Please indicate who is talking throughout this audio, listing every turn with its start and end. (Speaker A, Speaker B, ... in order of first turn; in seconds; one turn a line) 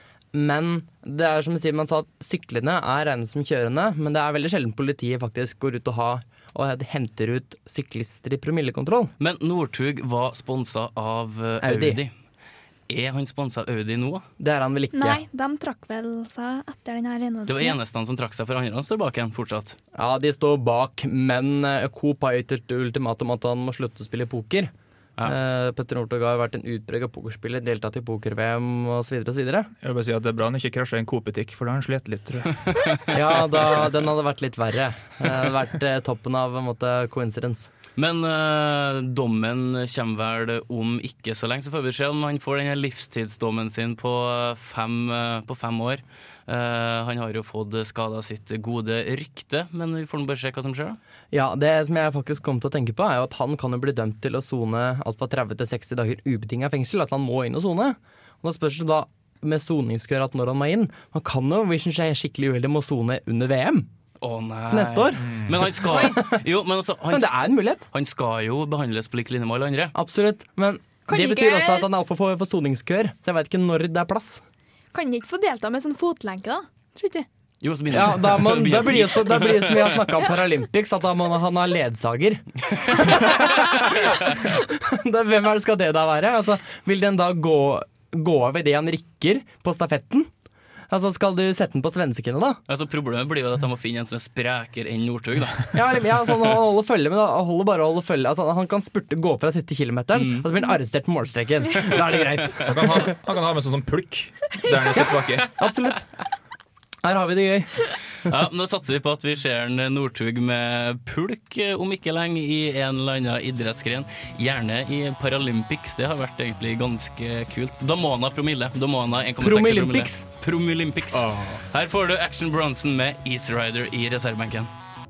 Speaker A: 0.3-9.1
Speaker B: 9.2-12.1
Speaker A: 11.6-12.0
Speaker B: 12.9-14.2
Speaker A: 14.4-15.2
Speaker C: 14.9-17.8
Speaker B: 17.5-19.8
Speaker A: 19.9-24.7
Speaker A: 25.2-29.7
Speaker D: 29.8-32.6
Speaker B: 32.7-33.1
Speaker A: 33.1-37.7
Speaker B: 38.0-51.0
Speaker A: 51.3-63.9
Speaker B: 64.2-69.9
Speaker A: 64.7-65.2
Speaker D: 65.2-65.7
Speaker A: 66.0-66.3
Speaker A: 67.1-67.8
Speaker A: 69.9-74.4
Speaker C: 71.1-71.9
Speaker C: 74.9-77.2
Speaker B: 77.6-80.1
Speaker A: 77.9-82.4
Speaker B: 82.9-83.3
Speaker A: 83.0-90.3
Speaker A: 90.9-92.6
Speaker B: 92.7-95.8
Speaker A: 95.7-103.1
Speaker B: 100.1-100.5
Speaker D: 102.6-105.5
Speaker A: 105.0-106.1
Speaker A: 107.0-108.3
Speaker B: 108.3-124.7
Speaker A: 119.4-120.2
Speaker D: 121.1-121.6